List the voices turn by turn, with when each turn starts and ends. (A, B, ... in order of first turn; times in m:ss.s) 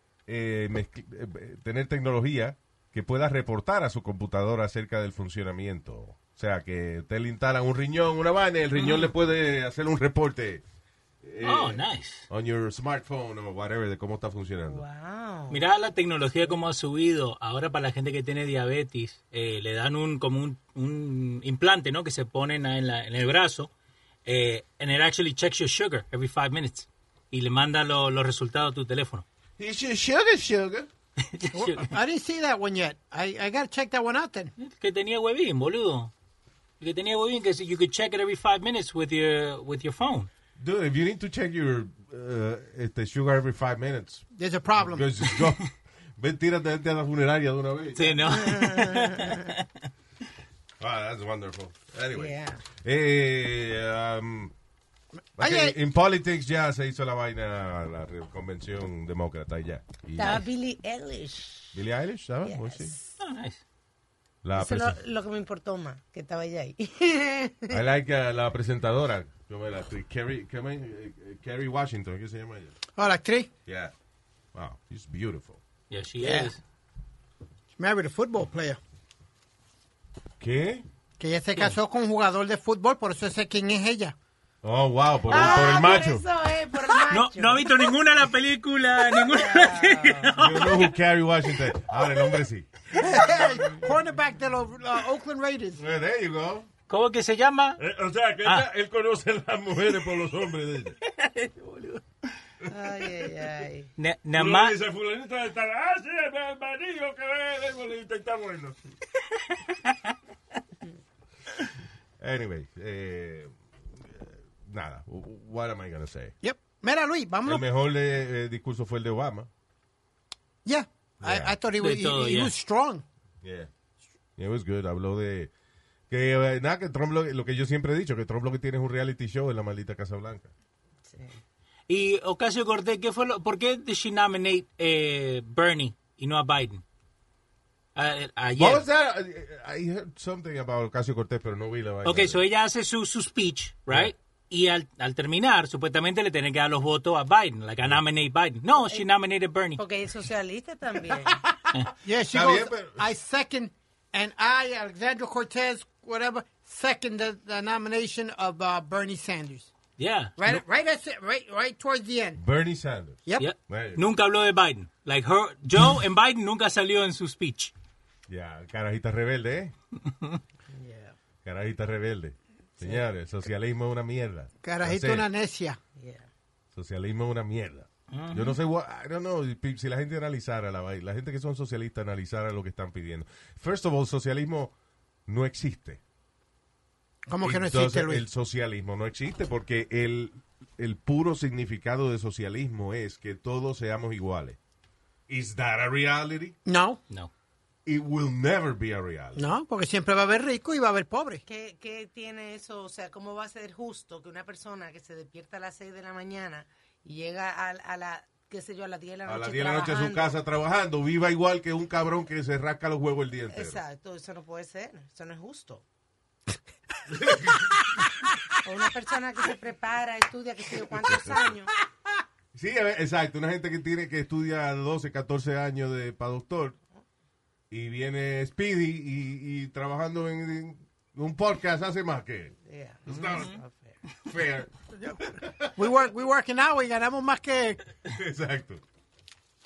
0:00.3-0:10.6 A
0:08.8-0:09.1 B
0:11.2-0:14.8 A
0:11.4-0:12.3 B
0:14.7-0:15.6 C
0:15.5-0:23.7 B
0:24.2-0:29.2 B
0:29.6-0:30.9 A
0:31.2-0:31.9 B
0:31.5-0:34.5 D
0:34.6-0:36.1 B
0:36.8-0:40.3 B
0:40.6-0:48.5 A
0:44.3-0:45.1 D
0:48.0-0:49.7 B
0:48.3-0:49.5 C
0:50.8-0:54.5 A
0:52.2-0:52.6 C
0:55.4-0:55.8 D
0:55.4-1:00.4 A
1:00.2-1:01.8 C
1:01.7-1:02.9 A
1:02.5-1:03.1 C
1:03.2-1:03.6 B
1:04.4-1:05.0 A
1:04.6-1:07.8 C
1:07.7-1:12.8 A
1:13.0-1:13.5 D
1:13.7-1:13.9 A
1:14.5-1:15.6 A
1:15.9-1:16.6 B
1:16.2-1:16.5 D
1:17.8-1:18.8 D
1:20.4-1:20.8 A
1:21.2-1:24.2 D
1:24.6-1:26.2 A
1:25.3-1:27.7 C
1:27.1-1:31.0 B
1:29.3-1:30.4 C
1:30.4-1:32.7 A
1:32.9-1:35.8 D
1:35.8-1:36.7 A
1:36.9-1:37.8 B
1:37.8-1:41.0 E
1:38.4-1:38.7 B
1:41.0-1:42.0 B
1:42.7-1:43.9 C
1:44.0-1:44.8 B
1:44.3-1:48.8 E
1:49.4-1:50.0 B
1:52.2-1:56.4 A
1:56.4-1:57.7 D
1:57.4-1:59.5 A
2:00.6-2:03.0 D
2:01.2-2:01.6 A
2:01.8-2:02.6 B
2:03.4-2:03.7 A
2:04.4-2:05.5 A
2:06.1-2:10.5 A
2:11.1-2:11.4 C
2:11.9-2:16.8 B
2:18.0-2:18.8 B
2:18.6-2:22.4 A
2:22.0-2:29.8 B
2:29.8-2:31.4 C
2:32.0-2:39.7 D
2:32.3-2:33.1 A
2:40.0-2:40.4 B
2:40.4-2:42.4 D
2:42.4-2:44.0 A
2:43.4-2:47.7 B
2:48.3-2:49.7 A
2:50.7-2:51.2 C
2:51.4-2:55.3 A
2:54.6-2:55.8 D
2:56.0-2:56.3 C
2:56.7-3:04.7 A
2:58.1-2:58.6 B
3:05.3-3:06.0 A
3:07.3-3:08.2 D
3:07.4-3:14.6 A
3:15.3-3:16.6 A
3:16.7-3:17.0 D
3:17.9-3:19.4 A
3:19.4-3:21.4 D
3:21.5-3:30.3 C
3:29.3-3:33.8 A
3:33.5-3:35.8 C
3:37.1-3:37.9 A
3:38.6-3:41.7 C
3:41.0-3:41.5 A
3:42.5-3:46.8 A
3:47.7-3:52.6 A
3:52.7-3:54.0 C
3:53.1-3:53.6 A
3:54.2-3:55.9 A
3:55.8-3:57.8 D
3:58.0-3:58.8 A